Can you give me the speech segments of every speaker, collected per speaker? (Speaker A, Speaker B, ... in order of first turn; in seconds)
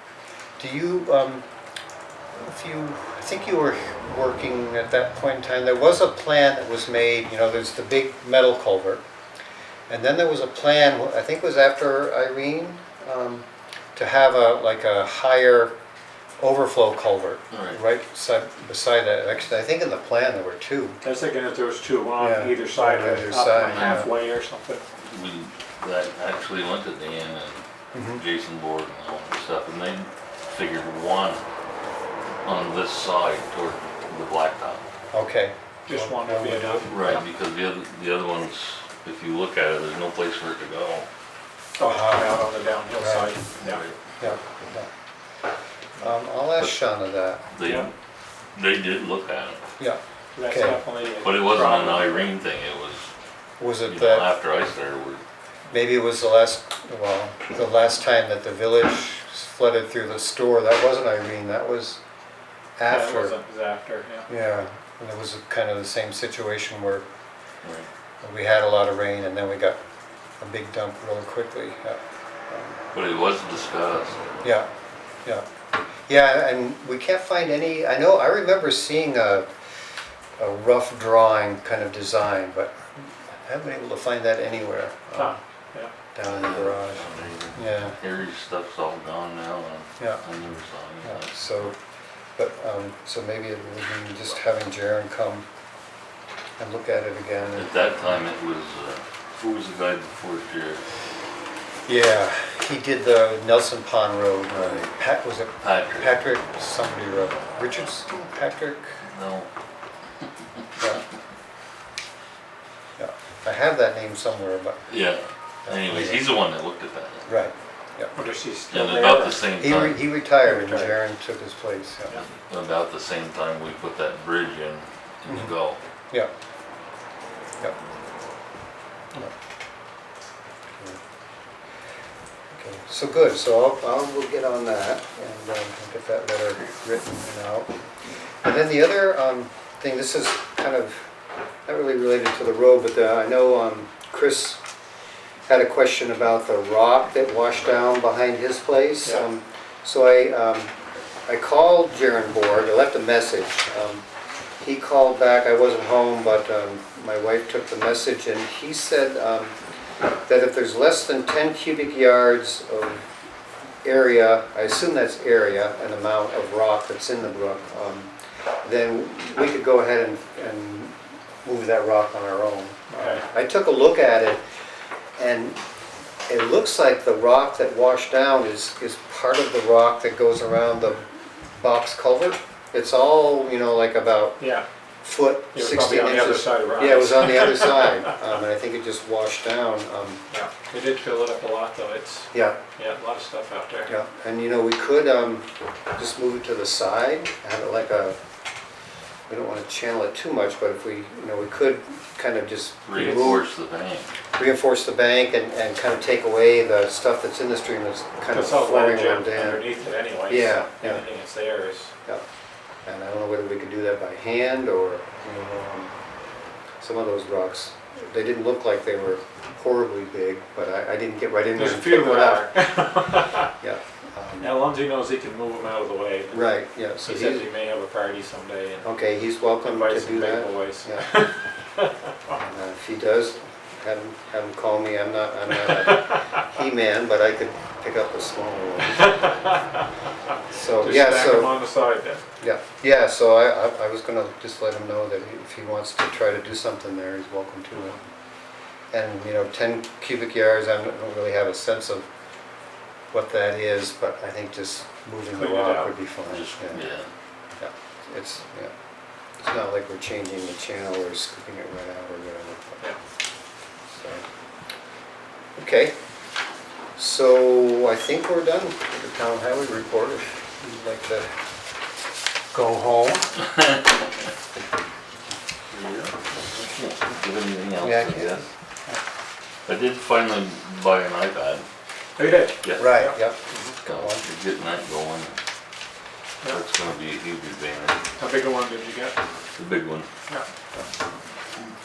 Speaker A: 0.6-1.4, 2.3-9.0, 9.9-15.7, 16.4-21.0, 22.2-24.1, 27.9-28.2, 35.1-37.2, 41.8-42.4, 43.0-43.3, 44.2-44.9, 46.0-47.5, 49.8-50.8, 53.6-54.3, 55.7-62.0, 62.8-63.4, 64.3-67.0, 68.2-69.8, 70.4-72.8, 74.4-74.7, 76.1-79.5, 80.4-85.4, 86.1-87.0, 87.5-87.9, 91.0-91.8, 92.4-95.5, 96.6-97.8, 101.9-109.0, 113.0-114.8, 115.7-116.2, 117.2-118.1, 119.6-122.2, 125.3-125.5, 132.5-137.7, 138.4-141.0, 141.7-144.6, 145.5-150.7, 151.3-154.0, 154.6-159.5, 160.3-163.1, 163.8-168.1, 168.6-174.4, 175.2-175.6, 176.3-184.4, 185.0-190.2, 192.3-192.6, 193.9-195.4, 195.9-198.2, 199.3-203.4, 204.3-209.7, 210.3-211.0, 212.8-215.9, 216.8-222.5, 223.6-224.6, 226.3-227.5, 228.8-231.2, 232.3-239.3, 240.5-241.6, 242.4-248.0, 248.9-252.1, 253.1-256.9, 257.6-258.7, 259.4-262.9, 263.9-264.2, 265.6-265.9, 266.9-271.3, 272.5-273.4, 277.8-279.0, 282.8-284.2
Speaker B: 17.5-17.8, 23.6-24.0, 25.0-31.4, 32.4-34.8, 36.9-41.1, 43.6-44.2, 47.5-47.9, 48.5-49.6, 51.2-53.1, 53.9-55.2, 67.6-67.9, 72.9-74.3, 86.2-91.7, 97.5-100.8, 105.6-106.2, 109.0-109.5, 114.9-117.2, 118.7-120.0, 122.2-125.8, 202.8-204.1, 256.2-257.1, 276.7-278.5, 279.6-281.6, 282.6-282.9, 283.8-285.4, 286.4-288.0, 289.6-290.1
Speaker C: 21.0-24.8, 35.9-37.2, 41.8-43.8, 47.6-47.9, 50.3-52.3, 62.9-64.3, 85.2-85.9, 118.1-119.5, 120.4-121.0, 172.9-173.2, 184.4-184.6, 185.5-188.0, 190.3-193.9, 208.3-211.9, 221.6-223.5, 224.4-228.8, 229.6-231.9, 235.6-236.2, 238.9-239.8, 240.8-242.2, 255.3-255.9, 275.7-276.1, 282.2-283.8, 288.2-289.2